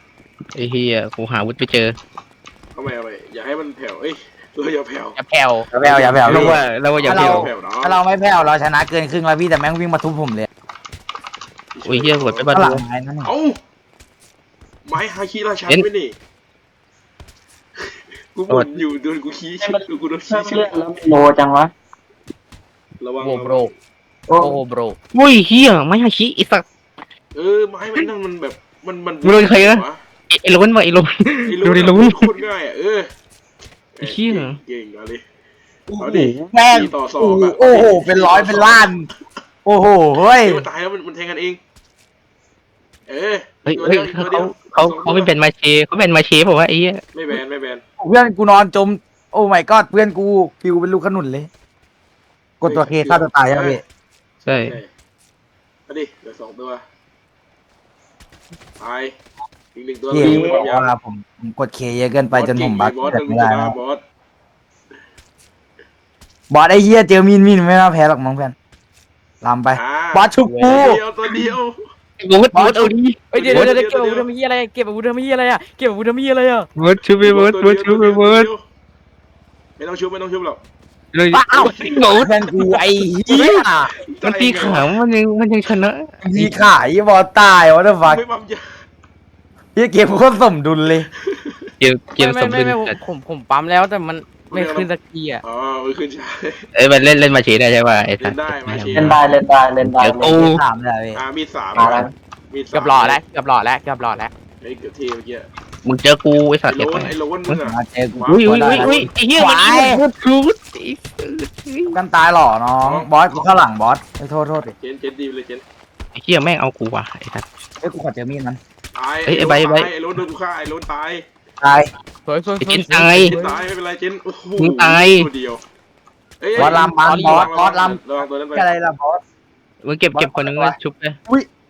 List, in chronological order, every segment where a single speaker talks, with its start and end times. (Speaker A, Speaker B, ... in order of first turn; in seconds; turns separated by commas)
Speaker A: 0.5-1.9, Speaker B: 2.7-5.2, Speaker C: 5.2-5.7, Speaker D: 5.7-10.5, Speaker B: 5.8-8.0, Speaker A: 6.2-7.5, Speaker B: 11.7-12.5, Speaker A: 11.8-12.8, Speaker D: 12.5-13.3, Speaker B: 13.2-13.6, Speaker B: 14.8-16.1, Speaker B: 17.8-20.8, Speaker E: 19.6-21.7, Speaker B: 23.0-23.7, Speaker C: 23.2-23.7, Speaker E: 24.3-24.6, Speaker C: 24.4-25.0, Speaker A: 25.1-26.6, Speaker B: 27.3-30.0, Speaker A: 29.2-32.3, Speaker B: 31.4-33.1, Speaker B: 33.9-35.2, Speaker A: 34.0-34.6, Speaker D: 35.9-39.1, Speaker B: 36.0-39.0, Speaker D: 39.6-40.6, Speaker B: 40.3-41.6, Speaker B: 43.1-45.3, Speaker A: 43.6-47.0, Speaker B: 47.1-47.8, Speaker D: 48.0-51.5, Speaker D: 52.6-53.8, Speaker B: 52.6-53.8, Speaker B: 54.4-54.9, Speaker A: 54.5-54.8, Speaker B: 55.9-56.8, Speaker B: 58.8-59.1, Speaker B: 59.7-60.9, Speaker D: 60.1-63.8, Speaker E: 60.1-60.7, Speaker B: 62.3-64.0, Speaker D: 66.5-68.5, Speaker D: 69.4-71.0, Speaker B: 69.7-71.8, Speaker A: 72.2-73.7, Speaker D: 72.5-73.0, Speaker C: 73.3-76.7, Speaker B: 73.3-74.3, Speaker A: 76.8-78.5, Speaker B: 77.2-78.6, Speaker B: 79.8-80.6, Speaker A: 81.1-82.3, Speaker D: 81.3-83.9, Speaker B: 81.5-82.2, Speaker A: 83.3-83.6, Speaker B: 83.9-84.9, Speaker A: 84.2-86.5, Speaker D: 86.2-88.2, Speaker B: 88.0-88.7, Speaker D: 89.8-91.1, Speaker B: 91.1-91.7, Speaker A: 91.8-93.0, Speaker C: 92.2-95.4, Speaker B: 94.5-94.9, Speaker B: 95.4-96.6, Speaker A: 96.8-99.2, Speaker B: 98.2-99.2, Speaker E: 98.9-100.5, Speaker A: 99.8-100.6, Speaker D: 100.4-101.2, Speaker B: 101.1-103.2, Speaker E: 101.7-102.1, Speaker C: 102.7-104.3, Speaker B: 104.6-105.5, Speaker A: 105.8-107.5, Speaker B: 106.7-108.9, Speaker D: 107.6-110.0, Speaker A: 108.3-112.0, Speaker D: 111.9-114.7, Speaker B: 112.8-113.1, Speaker B: 114.8-115.6, Speaker A: 116.1-117.5, Speaker D: 117.8-118.6, Speaker B: 118.9-121.2, Speaker A: 119.2-119.9, Speaker D: 121.6-121.9, Speaker C: 122.2-123.6, Speaker A: 122.6-123.3, Speaker B: 123.2-125.6, Speaker A: 124.6-125.3, Speaker B: 126.4-128.7, Speaker D: 126.5-129.2, Speaker C: 126.6-127.4, Speaker A: 129.8-131.2, Speaker D: 130.1-130.8